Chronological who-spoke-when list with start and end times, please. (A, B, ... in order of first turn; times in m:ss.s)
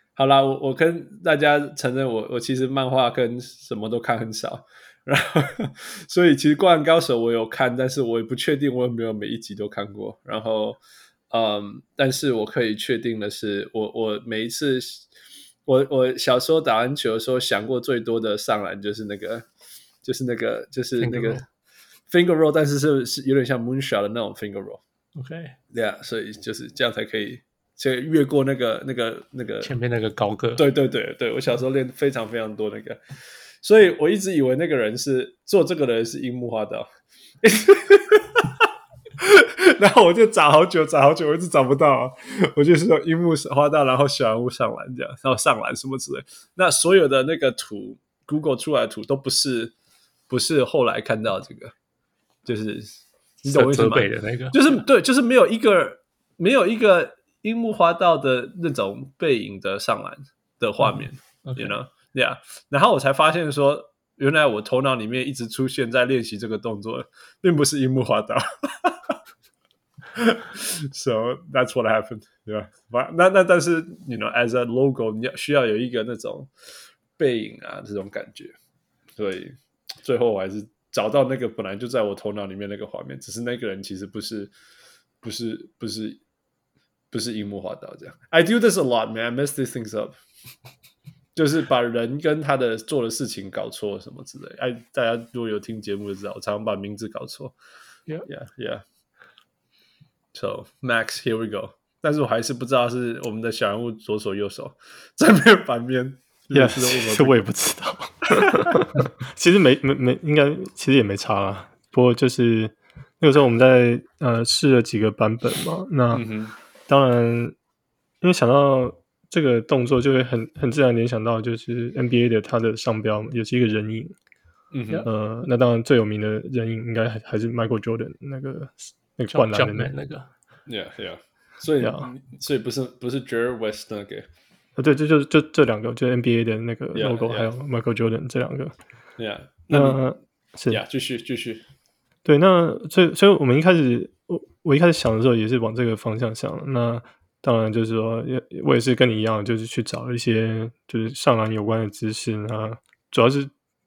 0:00.2-0:10.8 A
0:11.3-0:15.1 A
0:15.6-0:19.5 A
0:20.0-0:21.4 A
0:21.0-0:21.4 B
0:22.1-0:24.8 A
0:25.1-0:25.6 B
0:25.7-0:29.7 A
0:29.6-0:30.6 B
0:30.6-0:33.0 A
0:33.6-0:36.9 A
0:37.4-0:49.7 A
0:50.3-0:51.7 A
0:52.4-1:09.2 A
0:53.5-0:54.8 B
1:00.8-1:01.8 B
1:10.1-1:16.5 A
1:17.2-1:18.6 A
1:19.2-1:24.5 A
1:25.2-1:26.2 A
1:27.1-1:30.2 A
1:31.3-1:37.5 A
1:38.2-1:38.8 A
1:40.3-1:47.4 A
1:46.5-1:56.3 C
1:48.4-1:48.8 A
1:56.1-1:56.5 A
1:56.9-1:57.6 C
1:58.2-2:04.1 C
2:04.7-2:05.1 A
2:05.0-2:09.9 C
2:09.3-2:10.3 B
2:10.7-2:14.3 A
2:11.8-2:12.1 C
2:14.8-2:18.7 C
2:16.9-2:17.5 A
2:19.2-2:20.0 A
2:19.7-2:20.8 C
2:20.7-2:21.6 A
2:22.2-2:33.5 C